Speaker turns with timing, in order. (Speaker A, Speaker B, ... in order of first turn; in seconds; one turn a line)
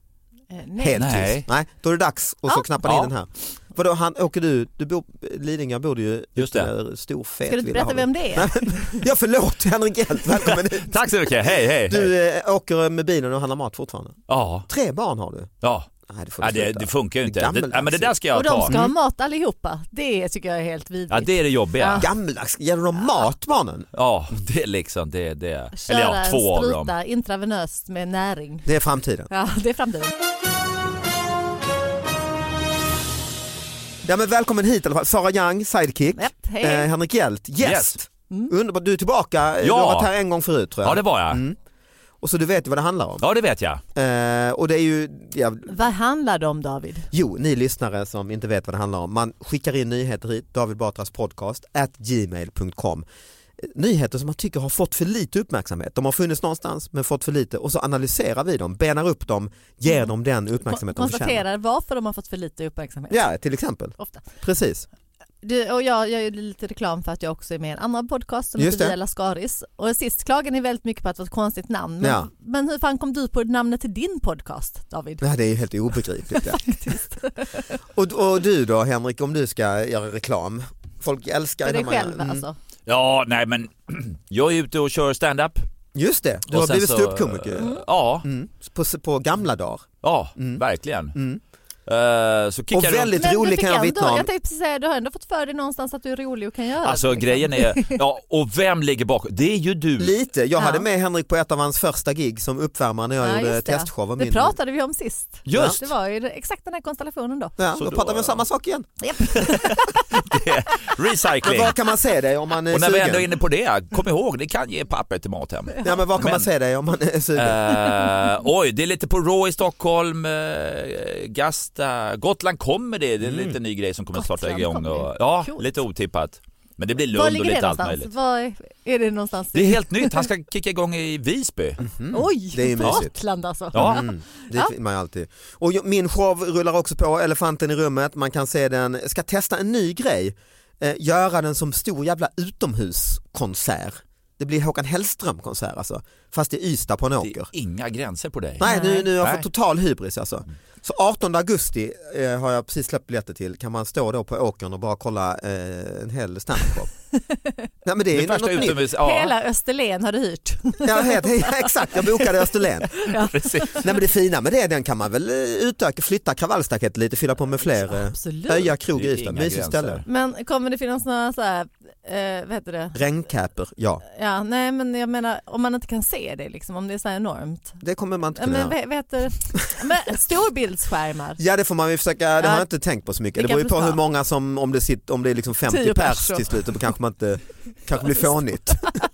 Speaker A: 0.5-1.1
Speaker B: 0.8-15.5
Speaker C: 0.9-1.4
Speaker C: 2.8-3.1
Speaker C: 6.4-6.7
Speaker A: 7.5-9.0
Speaker C: 10.8-12.1
Speaker C: 14.3-14.7
Speaker C: 15.6-15.9
Speaker B: 16.1-18.9
Speaker C: 16.4-18.8
Speaker A: 18.3-22.1
Speaker C: 21.1-22.1
Speaker B: 22.0-23.9
Speaker C: 23.9-26.9
Speaker A: 25.8-28.7
Speaker B: 28.7-29.3
Speaker A: 29.3-30.1
Speaker B: 34.0-41.6
Speaker A: 36.2-36.9
Speaker C: 37.6-38.0
Speaker C: 39.6-40.1
Speaker C: 40.8-41.4
Speaker B: 42.2-43.2
Speaker C: 43.2-43.8
Speaker B: 44.0-45.8
Speaker A: 45.7-47.1
Speaker B: 47.1-53.0
Speaker B: 53.6-61.4
Speaker A: 60.6-63.2
Speaker B: 63.1-64.9
Speaker A: 64.0-64.2
Speaker A: 65.4-75.2
Speaker B: 68.6-69.0
Speaker B: 72.0-72.3
Speaker B: 75.2-77.0
Speaker A: 76.3-77.5
Speaker B: 77.8-82.5
Speaker A: 81.6-82.6
Speaker C: 82.9-85.7
Speaker B: 86.0-90.6
Speaker C: 86.5-88.3
Speaker C: 90.0-91.2
Speaker B: 91.1-91.4
Speaker C: 91.9-93.2
Speaker B: 92.7-94.3
Speaker A: 93.2-98.0
Speaker C: 96.8-100.1
Speaker B: 100.0-104.5
Speaker A: 100.6-100.8
Speaker A: 103.2-107.5
Speaker C: 105.5-105.8
Speaker B: 105.5-105.8
Speaker B: 107.6-108.9
Speaker C: 107.7-108.4
Speaker A: 109.0-110.1
Speaker C: 109.3-111.8
Speaker B: 111.4-113.3
Speaker C: 112.7-116.5
Speaker B: 115.8-117.9
Speaker C: 117.4-128.1
Speaker B: 123.2-123.6
Speaker A: 124.2-125.7
Speaker A: 127.1-130.2
Speaker C: 129.5-131.8
Speaker B: 131.8-133.1
Speaker A: 132.1-134.7
Speaker C: 133.7-134.0
Speaker B: 133.7-147.5
Speaker C: 147.2-148.7
Speaker B: 148.6-156.9
Speaker A: 148.6-149.1
Speaker C: 149.2-149.4
Speaker A: 157.3-157.7
Speaker B: 157.8-158.9
Speaker C: 158.1-159.3
Speaker A: 158.8-162.2
Speaker B: 160.8-162.9
Speaker A: 163.0-163.8
Speaker C: 163.1-163.8
Speaker B: 163.7-170.0
Speaker A: 167.7-168.7
Speaker C: 168.9-170.1
Speaker A: 170.1-173.0
Speaker B: 172.9-174.0
Speaker A: 174.1-177.8
Speaker B: 177.8-178.8
Speaker A: 178.4-181.4
Speaker B: 181.4-189.0
Speaker A: 182.4-182.7
Speaker A: 183.4-184.0
Speaker A: 185.7-186.8